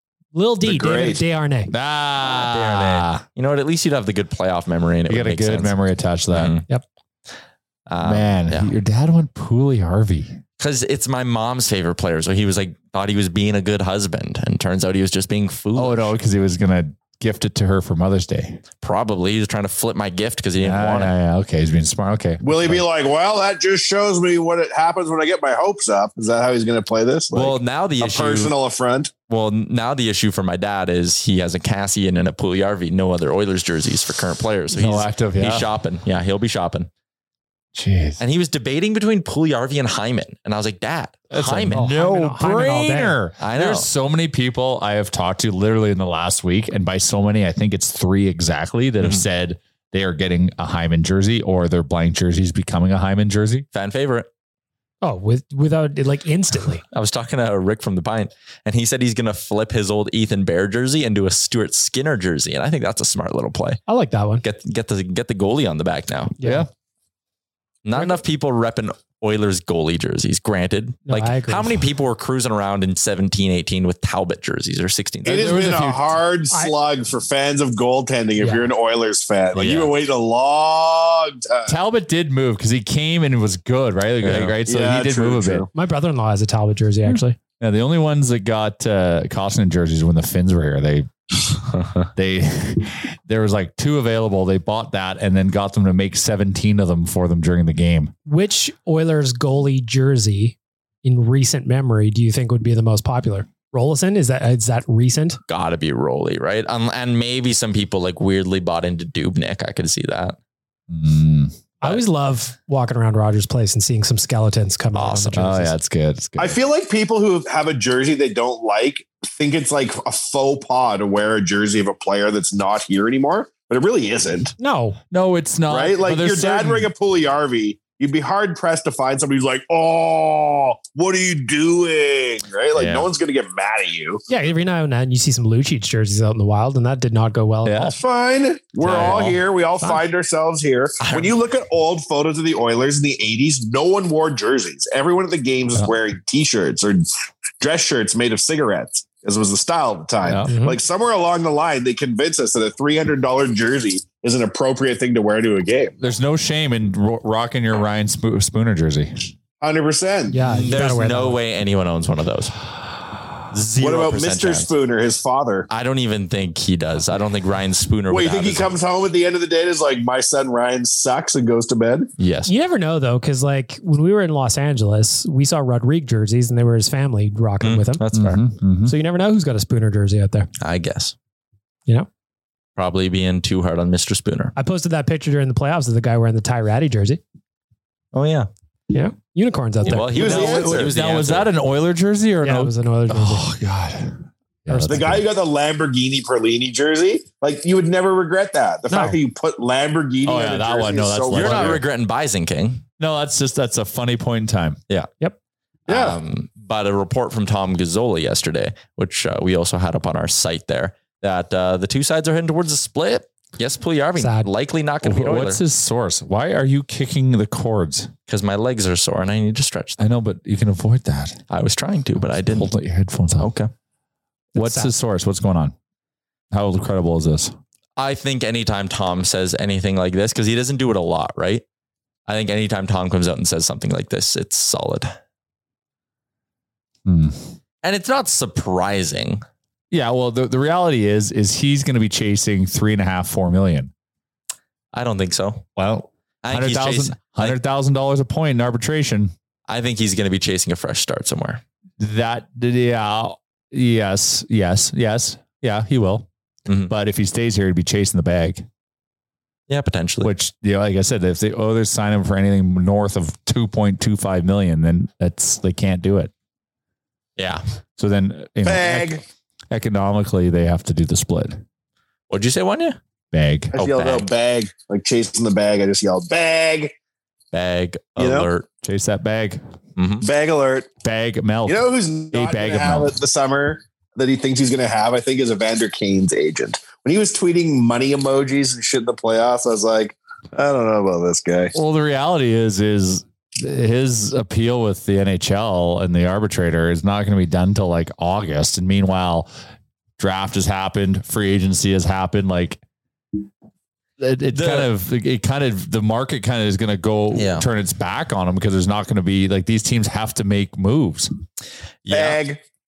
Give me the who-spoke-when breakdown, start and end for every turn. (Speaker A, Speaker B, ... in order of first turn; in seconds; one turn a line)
Speaker A: 0.3-1.7
Speaker B: 0.6-1.2
Speaker C: 1.7-3.2
Speaker D: 2.3-5.7
Speaker C: 5.1-6.5
Speaker D: 6.3-6.6
Speaker D: 7.9-8.7
Speaker C: 8.0-10.4
Speaker D: 10.6-16.1
Speaker C: 15.8-18.6
Speaker D: 18.8-21.1
Speaker C: 20.6-22.8
Speaker B: 22.4-29.1
Speaker D: 27.3-28.6
Speaker D: 29.3-36.9
Speaker C: 34.7-35.7
Speaker C: 37.7-38.2
Speaker D: 38.2-41.9
Speaker C: 41.3-53.6
Speaker A: 41.7-43.2
Speaker D: 43.4-43.9
Speaker D: 49.0-49.2
Speaker D: 53.7-54.3
Speaker A: 55.0-56.8
Speaker D: 56.9-63.8
Speaker A: 63.9-64.4
Speaker D: 64.4-66.3
Speaker A: 66.4-66.7
Speaker C: 66.4-66.7
Speaker D: 67.8-75.5
Speaker A: 71.1-71.8
Speaker C: 75.2-76.1
Speaker B: 75.2-81.7
Speaker A: 78.4-78.7
Speaker D: 79.5-79.9
Speaker C: 81.7-85.7
Speaker D: 84.2-84.5
Speaker B: 84.7-85.7
Speaker A: 85.7-87.4
Speaker C: 87.0-91.1
Speaker C: 92.1-98.1
Speaker A: 98.3-105.4
Speaker D: 105.5-110.3
Speaker C: 110.9-111.6
Speaker A: 111.8-115.7
Speaker D: 114.9-115.4
Speaker C: 115.3-116.6
Speaker B: 116.4-124.5
Speaker A: 124.6-125.0
Speaker C: 125.1-126.9
Speaker B: 125.7-134.2
Speaker D: 132.8-133.0
Speaker A: 134.3-137.9
Speaker C: 137.6-137.9
Speaker B: 137.9-147.0
Speaker D: 138.8-139.9
Speaker C: 138.9-139.3
Speaker D: 141.0-141.3
Speaker B: 147.6-155.9
Speaker C: 150.2-150.5
Speaker A: 150.5-150.8
Speaker C: 156.0-159.3
Speaker B: 159.6-160.4
Speaker A: 160.3-161.4
Speaker D: 160.4-162.6
Speaker D: 163.5-164.7
Speaker B: 163.8-165.7
Speaker D: 165.7-168.7
Speaker B: 168.1-172.1
Speaker D: 172.2-172.5
Speaker A: 172.5-178.0
Speaker D: 177.6-178.4
Speaker C: 178.1-178.9
Speaker A: 178.8-180.5
Speaker D: 180.6-181.1
Speaker D: 182.8-184.5
Speaker A: 184.6-187.2
Speaker D: 188.1-188.5
Speaker A: 188.9-190.4
Speaker D: 189.8-191.5
Speaker B: 190.1-190.9
Speaker C: 190.1-195.2
Speaker A: 192.4-193.5
Speaker A: 194.7-195.2
Speaker B: 194.9-201.8
Speaker A: 198.9-199.2
Speaker C: 200.2-201.8
Speaker D: 201.3-202.8
Speaker C: 203.0-204.8
Speaker B: 205.9-206.2
Speaker D: 205.9-215.6
Speaker A: 214.2-214.5
Speaker C: 215.0-218.1
Speaker D: 218.3-220.1
Speaker C: 220.0-221.4
Speaker D: 221.5-222.7
Speaker C: 222.2-223.5
Speaker D: 223.4-223.7
Speaker A: 224.5-224.9
Speaker C: 224.5-225.7
Speaker C: 226.5-227.5
Speaker D: 228.0-231.6
Speaker D: 232.3-235.1
Speaker C: 237.0-237.5
Speaker D: 237.8-239.4
Speaker C: 239.9-243.9
Speaker D: 244.9-245.6
Speaker C: 245.8-249.3
Speaker D: 246.4-247.6
Speaker D: 249.7-251.6
Speaker C: 252.0-256.3
Speaker D: 256.7-256.9
Speaker C: 256.9-258.6
Speaker D: 259.7-260.3
Speaker C: 260.2-266.3
Speaker D: 267.4-267.6
Speaker C: 268.0-271.6
Speaker B: 268.6-269.2
Speaker D: 272.3-273.0
Speaker C: 273.3-273.7
Speaker B: 273.7-276.9
Speaker D: 273.7-274.3
Speaker D: 277.5-278.6
Speaker B: 278.2-278.5
Speaker C: 278.8-279.6
Speaker D: 280.0-280.2
Speaker B: 280.2-280.9
Speaker C: 281.0-283.1
Speaker B: 281.6-291.7
Speaker C: 291.7-299.5
Speaker C: 300.2-302.8
Speaker C: 304.2-311.3
Speaker D: 304.5-304.9
Speaker D: 307.3-307.6
Speaker D: 312.1-312.4
Speaker B: 312.1-312.6